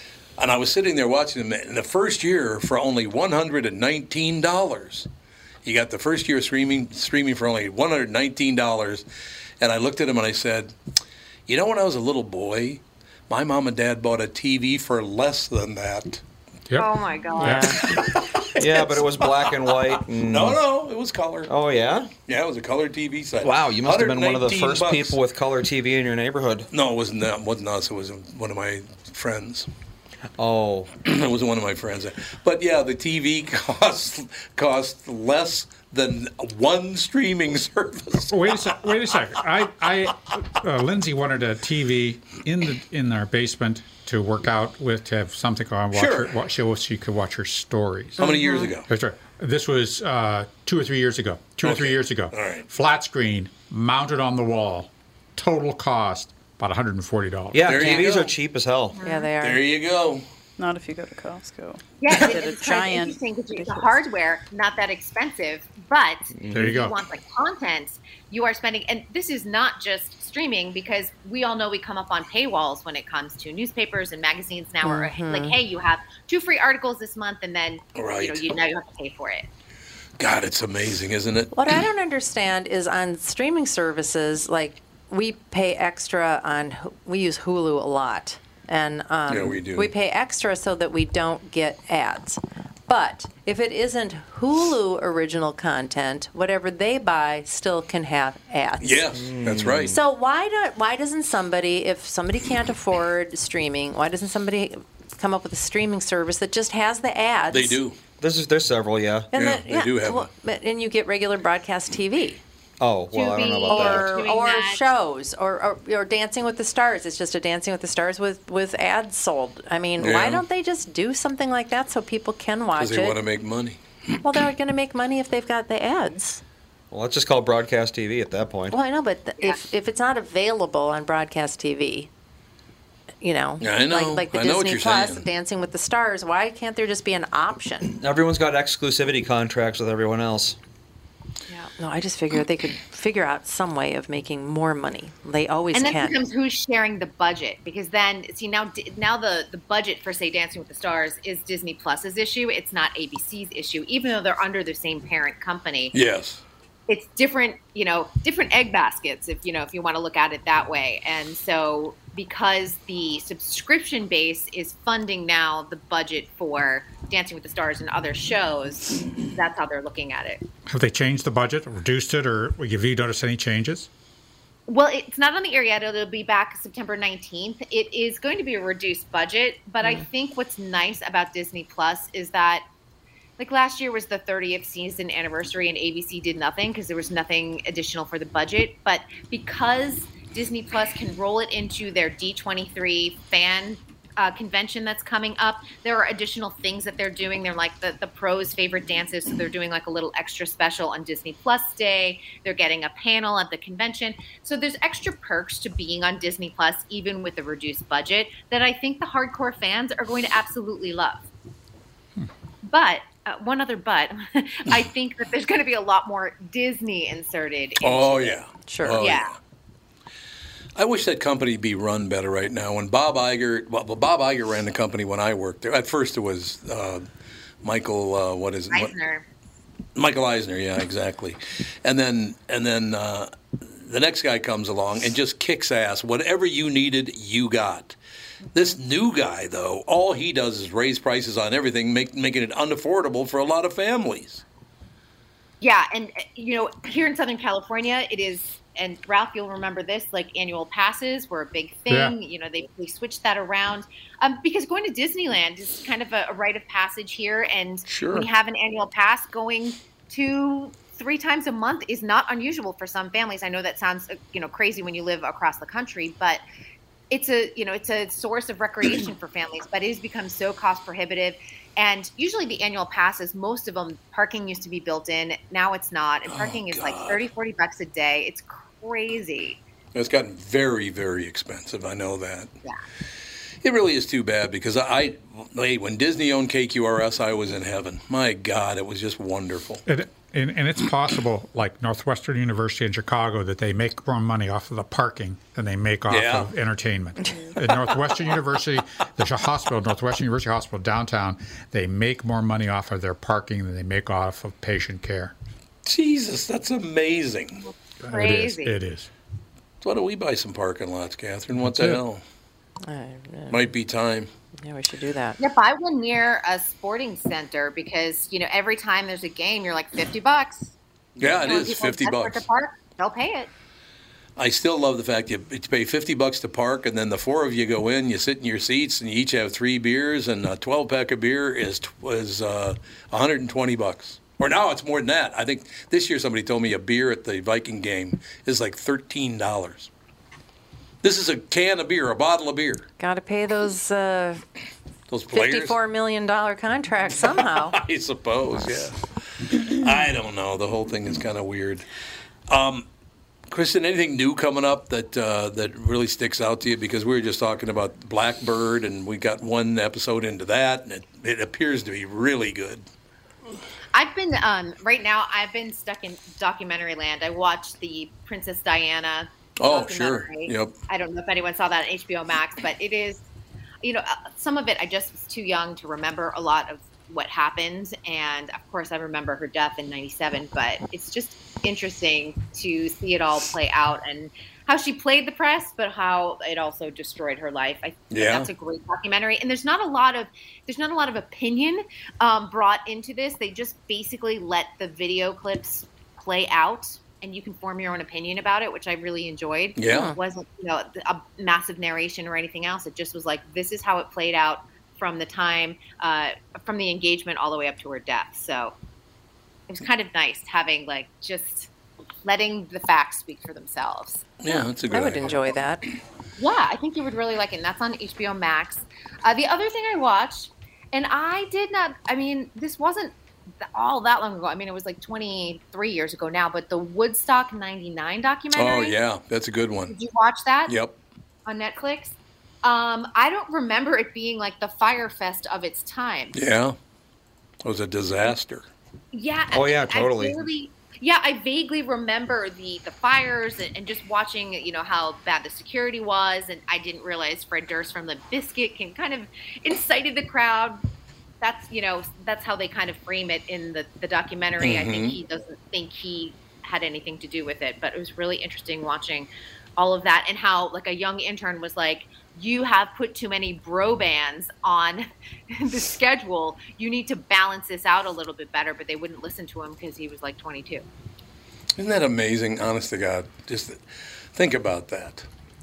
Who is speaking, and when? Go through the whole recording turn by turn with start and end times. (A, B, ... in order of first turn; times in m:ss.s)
0:00.4-0:05.1 A
0:05.6-0:09.0 A
0:09.6-0:10.7 A
0:11.5-0:16.2 A
0:16.7-0:18.0 B
0:16.8-0:17.8 C
0:17.8-0:19.6 A
0:18.6-0:20.6 D
0:20.1-0:21.5 A
0:21.5-0:22.1 D
0:22.3-0:25.2 A
0:23.4-0:26.7 D
0:26.7-0:29.7 A
0:30.4-0:30.9 D
0:31.0-0:38.4 A
0:38.3-0:48.3 B
0:45.9-0:46.3 A
0:48.2-0:48.8 A
0:48.9-0:57.8 B
0:51.6-0:52.6 A
0:57.5-0:59.0 D
0:57.6-0:58.3 A
0:58.9-0:59.3 C
0:59.0-0:59.6 E
0:59.4-1:00.2 A
1:00.6-1:03.2 F
1:02.0-1:19.5 C
1:02.1-1:02.3 A
1:06.4-1:06.7 D
1:06.5-1:07.0 B
1:14.8-1:15.6 E
1:18.0-1:18.4 A
1:20.2-1:21.5 A
1:21.5-1:39.0 E
1:29.3-1:29.9 A
1:38.8-1:40.0 A
1:39.2-1:39.9 D
1:39.9-1:47.8 E
1:47.5-1:48.0 A
1:48.2-1:49.3 D
1:49.3-1:52.4 E
1:49.3-1:50.3 A
1:52.8-1:54.1 D
1:53.1-1:54.9 C
1:53.7-2:03.2 E
2:00.0-2:00.4 A
2:02.8-2:03.8 A
2:04.2-2:06.4 E
2:06.9-2:08.8 D
2:08.7-2:12.1 E
2:13.2-2:17.9 E
2:13.6-2:15.2 A
2:18.0-2:20.6 D
2:21.7-2:26.2 E
2:25.7-2:35.9 C
2:35.9-2:36.4 A
2:36.9-2:50.4 C
2:50.7-2:53.9 B
2:54.7-3:02.6 C
3:03.4-3:31.2 C
3:32.6-3:38.4 C
3:37.8-3:39.3 A
3:38.7-3:39.1 E
3:39.0-3:39.3 C
3:40.8-3:47.0 A
3:47.6-3:48.9 A
3:48.7-3:49.2 C
3:50.0-3:58.0 A
3:58.5-4:04.4 A
4:05.6-4:26.4 C
4:11.9-4:12.1 B
4:17.9-4:18.3 A
4:27.1-4:39.6 C
4:36.3-4:37.3 A
4:39.9-4:42.5 A
4:43.6-4:49.8 A
4:49.9-5:05.3 B
4:56.1-4:56.5 A
5:05.8-5:07.6 A
5:08.0-5:09.1 B
5:08.1-5:08.8 C
5:09.8-5:12.2 A
5:11.6-5:12.0 B
5:12.8-5:13.6 E
5:13.5-5:14.3 A
5:14.6-5:15.4 E
5:15.4-5:23.5 C
5:21.2-5:22.4 A
5:24.4-5:39.9 A
5:41.0-5:42.9 A
5:43.0-5:44.4 E
5:45.1-5:45.8 A
5:45.3-5:47.8 E
5:47.4-5:51.8 A
5:52.5-5:52.8 A
5:53.5-6:02.8 A
6:03.9-6:13.3 C
6:09.6-6:10.7 A
6:13.8-6:48.7 C
6:28.1-6:28.5 A
6:39.8-6:40.1 A
6:39.9-6:40.2 E
6:49.7-6:51.7 C
6:52.2-6:54.2 C
6:54.4-6:55.5 A
6:54.9-6:55.8 E
6:56.4-7:03.1 C
7:03.6-7:09.0 C
7:08.5-7:09.9 A
7:09.9-7:10.8 C
7:10.7-7:11.0 A
7:11.4-7:16.3 C
7:16.3-7:16.7 A
7:17.6-7:18.6 A
7:19.1-7:30.8 C
7:19.5-7:20.4 D
7:31.4-7:50.8 C
7:34.6-7:35.2 A
7:51.8-7:53.8 A
7:54.3-7:55.2 A